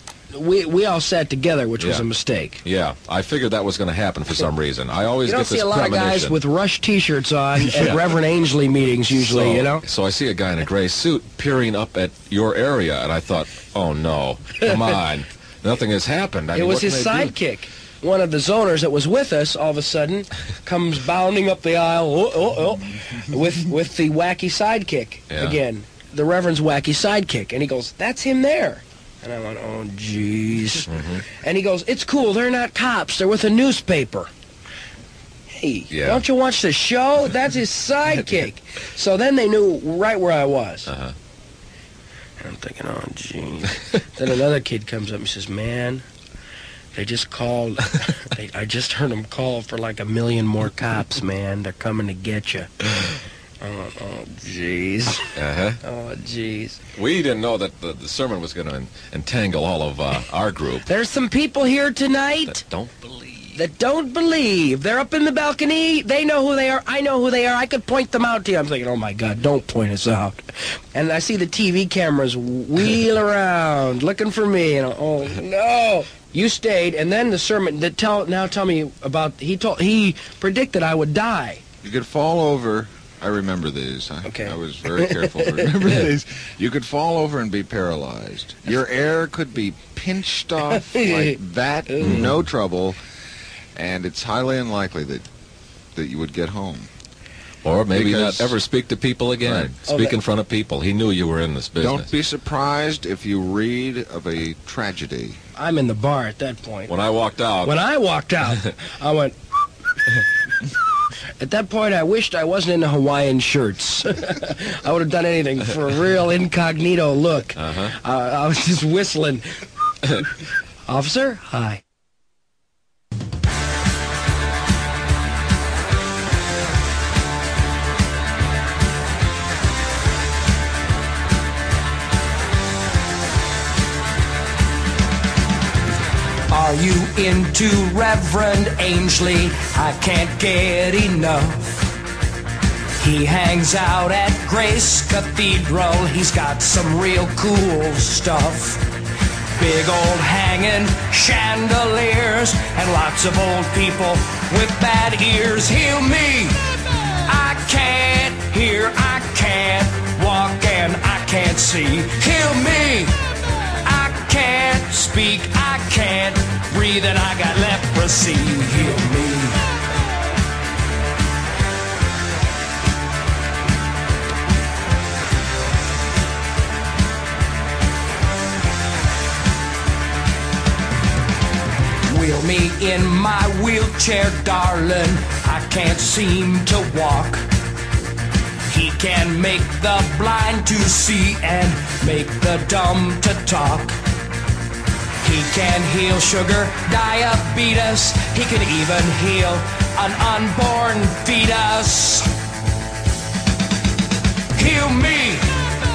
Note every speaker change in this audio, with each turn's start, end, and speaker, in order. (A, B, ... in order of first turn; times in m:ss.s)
0:00.3-0:02.6 A
0:01.8-0:02.1 B
0:02.6-0:06.3 B
0:05.2-0:09.8 A
0:07.6-0:08.1 B
0:09.1-0:17.3 B
0:16.5-0:34.3 A
0:25.3-0:25.6 B
0:30.9-0:31.2 B
0:35.5-0:40.9 A
0:35.9-0:36.2 B
0:40.9-0:41.1 B
0:42.4-0:46.0 A
0:46.9-0:52.9 A
0:53.6-0:55.3 A
0:55.3-0:55.8 B
0:55.8-0:56.8 A
0:56.9-1:00.8 B
1:00.8-1:02.6 A
1:02.5-1:03.6 B
1:03.5-1:21.6 A
1:21.8-1:33.0 C
1:24.2-1:25.9 A
1:30.7-1:31.4 A
1:31.9-1:32.3 A
1:32.0-1:32.4 B
1:33.7-1:35.3 C
1:35.9-1:36.9 C
1:37.6-1:42.1 B
1:37.9-1:38.5 C
1:39.4-1:39.7 C
1:39.8-1:40.2 A
1:41.8-1:45.4 C
1:45.6-1:46.9 A
1:46.9-1:47.7 B
1:47.6-1:49.3 A
1:51.4-1:59.4 A
1:57.6-1:57.9 B
2:00.8-2:01.8 A
2:16.5-2:21.9 A
2:23.0-2:28.8 A
2:29.5-2:36.6 A
2:37.1-2:43.2 A
2:43.8-2:49.6 A
3:02.1-3:07.5 A
3:08.6-3:14.0 A
3:15.2-3:22.3 A
3:24.5-3:25.6 A